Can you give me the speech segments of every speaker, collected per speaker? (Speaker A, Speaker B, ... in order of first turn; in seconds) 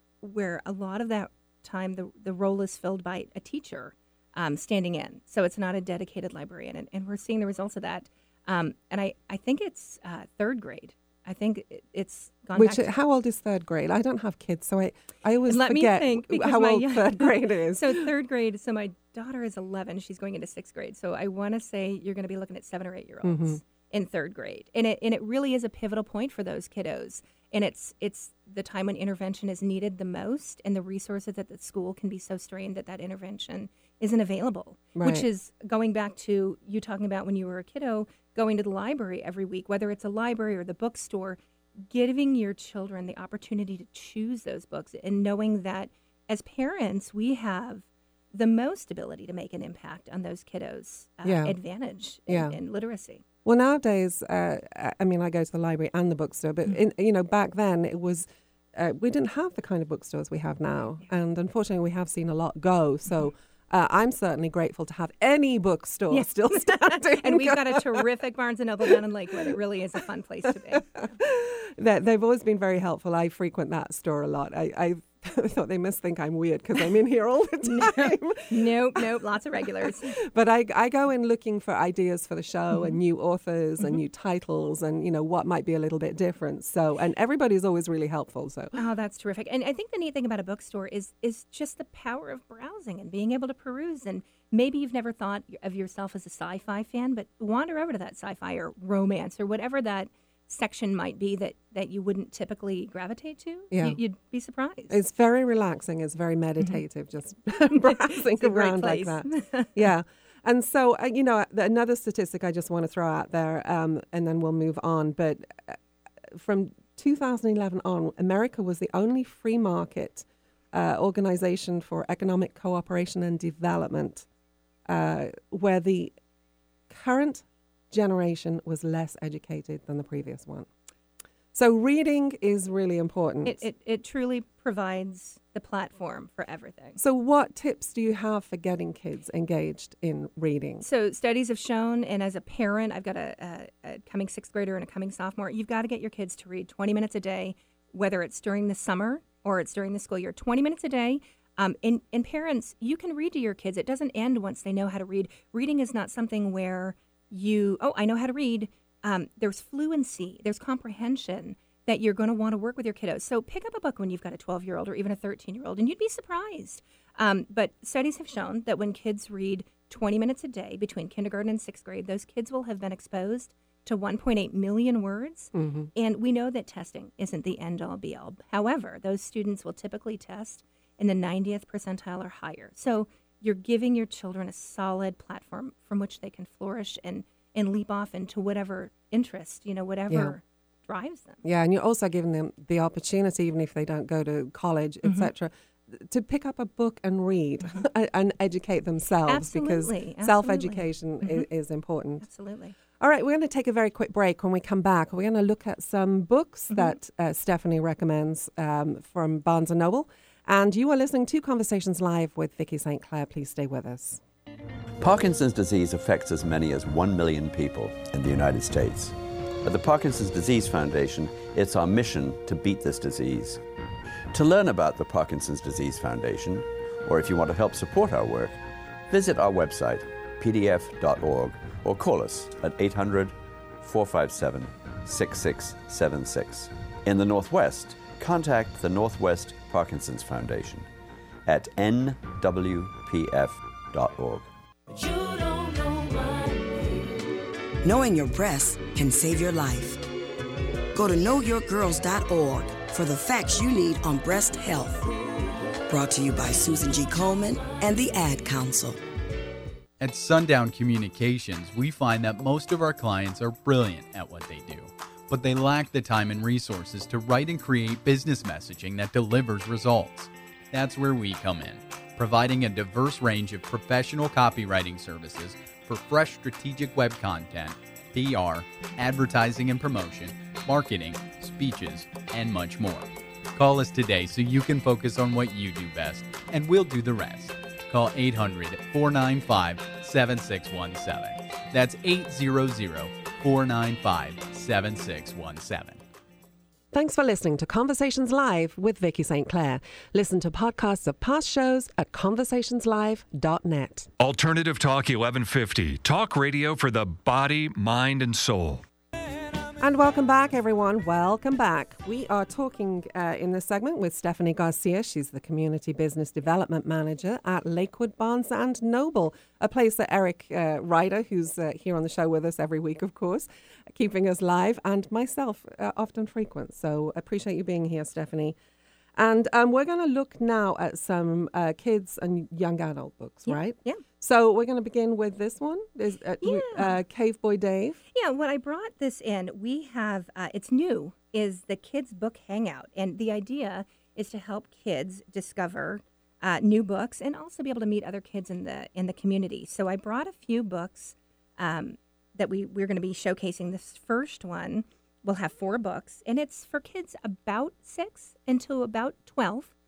Speaker A: 0.2-12.9, 15.5-53.2, 66.1-70.9, 77.7-80.2, 88.8-105.0, 107.7-109.8, 133.4-137.0, 140.8-191.4, 199.3-201.5, 202.2-202.7, 206.7-207.0, 333.5-334.0, 336.4-336.9, 338.1-359.7
Speaker B: 12.5-18.1, 23.2-23.6, 35.0-35.2, 51.2-51.6, 52.3-52.6, 53.5-68.0, 70.5-79.0, 80.2-88.8, 103.7-104.0, 104.9-124.3, 124.9-126.1, 126.9-130.7, 131.5-133.6, 137.0-140.8, 175.5-175.9, 191.4-202.3, 203.0-214.2, 296.9-304.1, 309.8-328.6, 329.2-338.0
Speaker C: 215.0-223.6, 224.3-240.9, 241.5-244.5
Speaker D: 245.0-246.5, 247.8-250.0, 250.9-255.1, 255.9-259.0
Speaker E: 260.0-296.0
Speaker F: 304.2-308.8